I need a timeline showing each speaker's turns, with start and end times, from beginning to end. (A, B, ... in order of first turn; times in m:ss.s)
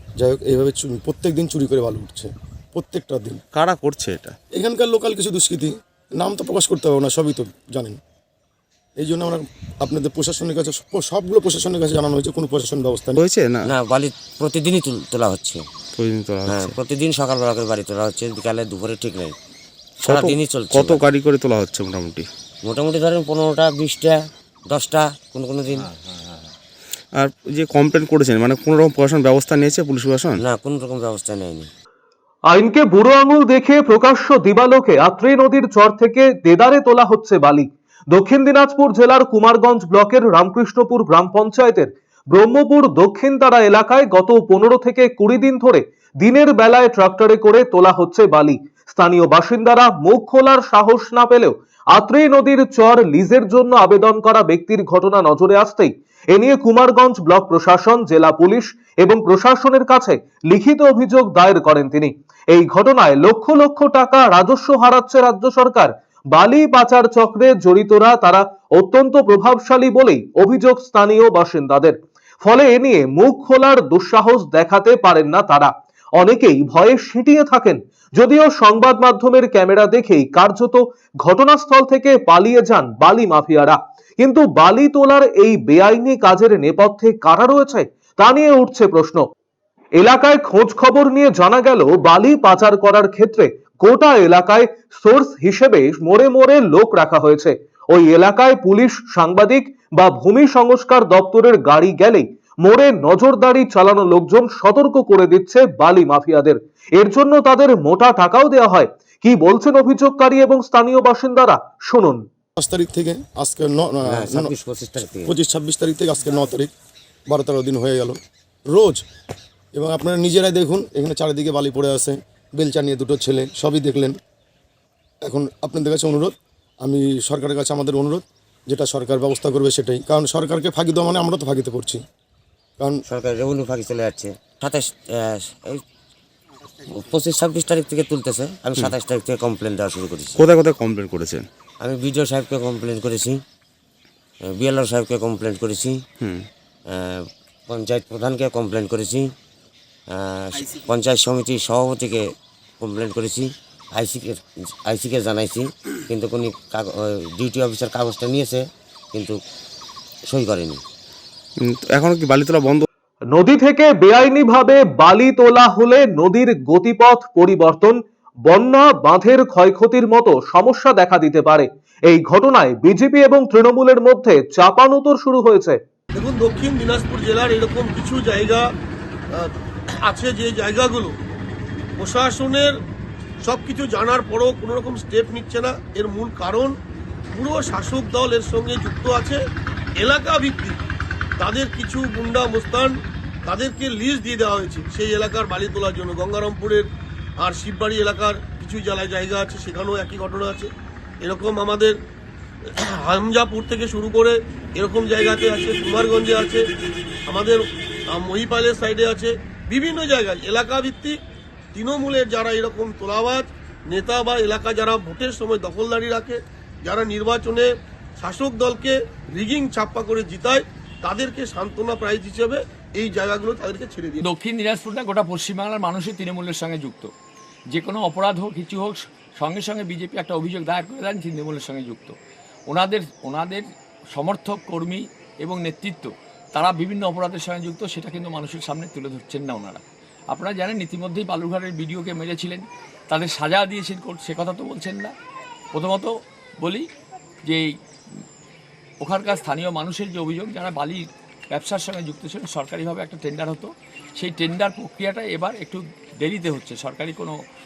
0:00.2-0:03.4 A
0:03.5-0:04.4 B
0:04.6-0:08.0 A
0:09.0-0:13.2 A
0:13.2-0:13.7 B
0:13.6-0:15.6 C
0:15.9-0:16.8 B
0:16.5-0:19.4 C
0:20.0-0:22.3 B
0:20.0-0:21.0 C
0:22.6-0:25.9 C
0:27.2-0:30.4 B
0:30.4-0:31.7 C
0:32.5-1:29.2 D
1:30.0-1:52.2 D
1:52.6-1:54.5 A
1:54.1-1:55.3 C
1:55.2-1:56.7 A
1:57.3-1:59.0 A
1:59.8-2:04.2 A
2:05.2-2:12.0 A
2:13.1-2:15.8 C
2:16.9-2:20.4 C
2:20.4-2:21.5 B
2:21.8-2:23.4 C
2:24.4-2:26.0 C
2:26.2-2:26.5 B
2:26.9-2:29.3 C
2:30.1-2:32.2 C
2:32.8-2:39.4 C
2:40.3-2:40.8 C
2:41.6-2:42.9 B
2:43.3-2:48.0 D
2:48.5-2:55.8 D
2:56.2-2:58.6 E
3:00.0-3:01.1 E
3:02.0-3:02.7 E
3:03.4-3:06.8 E
3:07.3-3:09.4 E
3:10.0-3:10.8 E
3:11.4-3:16.9 E
3:17.4-3:20.7 E
3:21.2-3:22.0 E
3:22.7-3:26.6 E
3:27.3-3:31.2 E
3:31.7-3:44.2 E
3:44.2-3:47.1 F
3:47.7-3:52.2 F
3:52.7-4:05.1 F
4:05.7-4:06.8 F
4:09.0-4:17.4 F